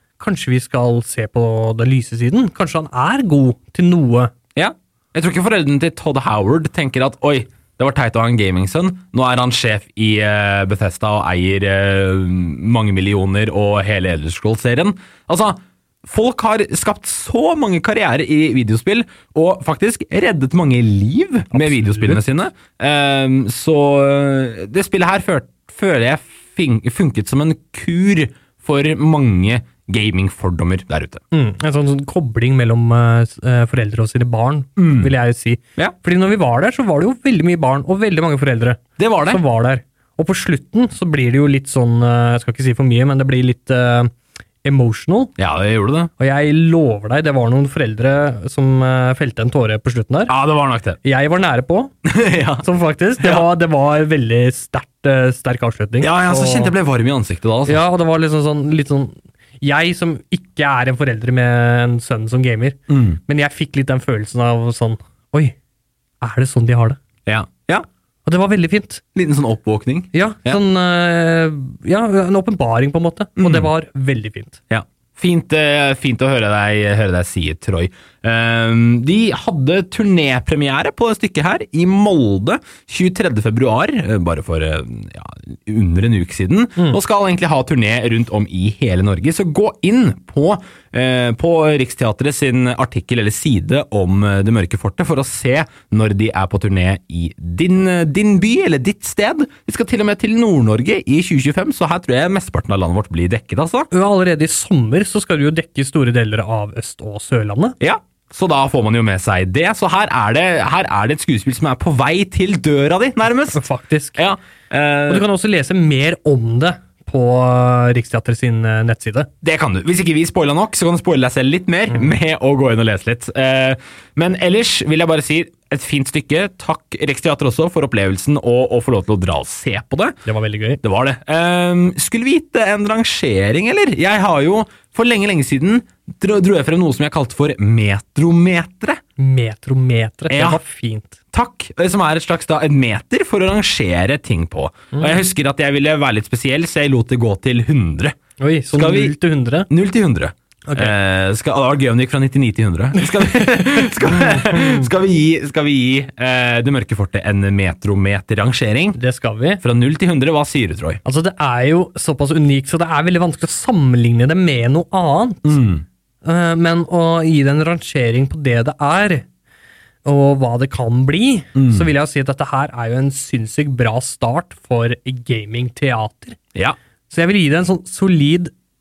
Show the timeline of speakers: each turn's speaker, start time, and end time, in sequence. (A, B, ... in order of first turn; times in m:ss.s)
0:00.2-0:04.3 A
0:04.5-0:31.2 B
0:21.5-0:22.2 A
0:31.3-0:44.1 A
0:34.8-0:35.1 B
0:39.0-0:39.4 B
0:44.6-0:45.3 A
0:45.4-0:46.1 B
0:46.2-0:50.3 A
0:50.3-0:51.0 B
0:51.0-0:51.9 A
0:52.0-0:52.6 B
0:52.6-0:56.7 A
0:53.2-0:53.4 B
0:56.0-0:57.8 B
0:57.7-1:05.5 A
1:02.9-1:03.2 B
1:06.2-1:07.0 A
1:07.2-1:07.8 B
1:08.2-1:09.0 A
1:09.1-1:10.6 B
1:10.1-1:14.6 A
1:13.4-1:13.7 B
1:14.7-1:43.9 B
1:43.9-1:47.8 A
1:47.8-1:53.6 B
1:53.5-1:54.2 A
1:54.2-1:55.2 B
1:55.1-1:59.3 A
1:59.4-2:10.2 B
2:01.9-2:02.1 A
2:10.2-2:10.8 A
2:10.8-2:19.0 B
2:19.2-2:21.2 A
2:20.3-2:20.6 B
2:21.3-2:28.1 B
2:24.9-2:25.2 A
2:28.4-2:29.7 A
2:28.7-2:29.2 B
2:29.7-2:39.0 B
2:30.7-2:30.9 A
2:33.8-2:34.9 A
2:38.9-2:39.6 A
2:39.6-2:41.0 B
2:41.0-2:45.6 A
2:45.4-2:45.8 B
2:46.2-2:49.2 A
2:50.0-2:56.4 A
2:51.5-2:51.9 B
2:57.1-2:58.5 A